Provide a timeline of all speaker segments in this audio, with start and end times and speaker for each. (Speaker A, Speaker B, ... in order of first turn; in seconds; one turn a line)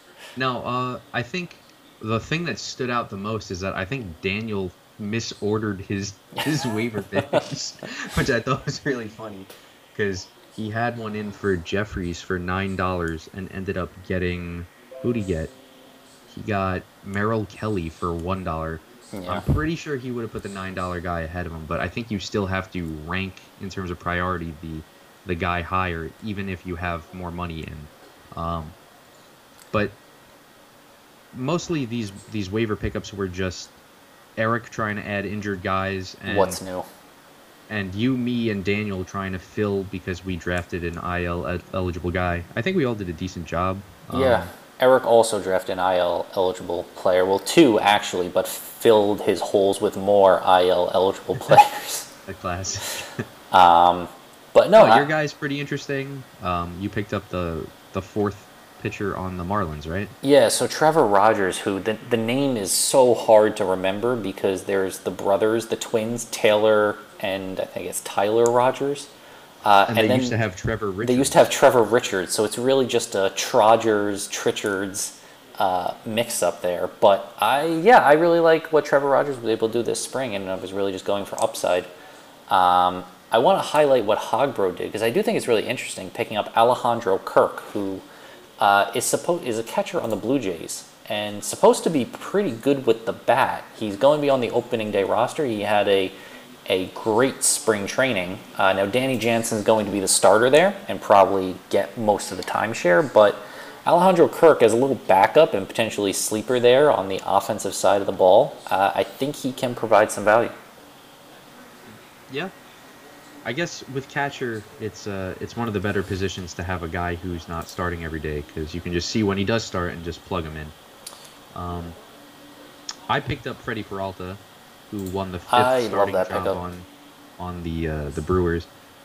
Speaker A: 0.4-15.5
Speaker A: 16.3-28.8
Speaker B: 19.1-19.5
Speaker A: 29.7-30.0
Speaker A: 31.3-33.8
Speaker A: 34.4-36.6
Speaker B: 36.3-36.9
Speaker A: 37.7-44.5
Speaker B: 44.1-52.1
Speaker A: 52.3-53.2
Speaker B: 53.5-55.1
Speaker A: 54.8-60.1
Speaker B: 60.2-69.1
Speaker B: 69.7-70.4
Speaker A: 69.9-71.4
Speaker B: 71.0-81.9
Speaker B: 82.5-88.0
Speaker B: 88.6-96.2
Speaker B: 96.7-110.5
Speaker A: 113.5-120.8
Speaker A: 121.5-122.0
Speaker A: 123.1-126.9
Speaker B: 125.5-126.6
Speaker A: 127.4-128.7